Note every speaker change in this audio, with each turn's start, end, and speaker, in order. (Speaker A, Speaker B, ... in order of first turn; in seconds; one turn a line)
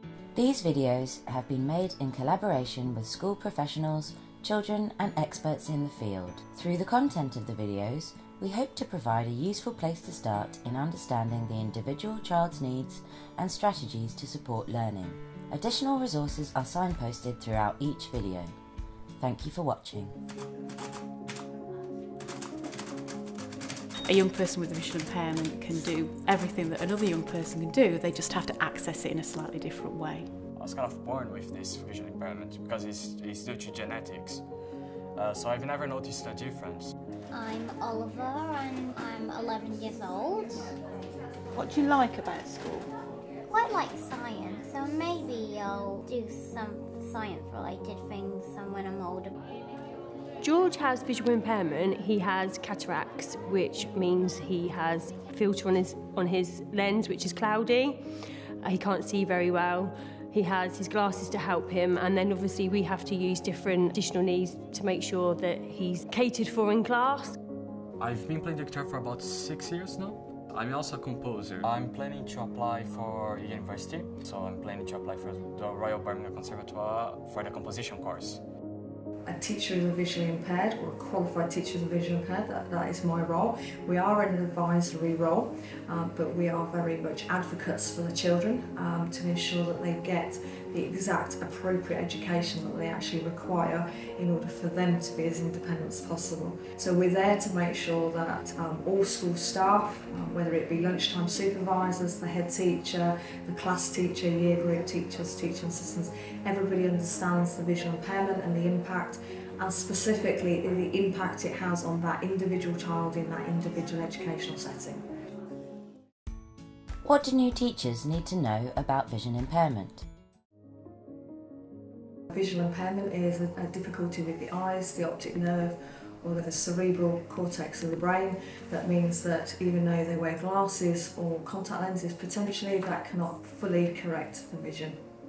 Speaker A: 0.4-18.5
Speaker A: 19.2-20.2
Speaker B: 24.1-30.3
Speaker C: 30.6-34.4
Speaker C: 35.2-36.9
Speaker D: 37.3-40.7
Speaker D: 43.5-49.3
Speaker E: 50.4-58.0
Speaker E: 58.6-67.4
Speaker C: 68.0-78.4
Speaker F: 79.3-115.0
Speaker A: 117.0-120.0
Speaker F: 122.3-135.0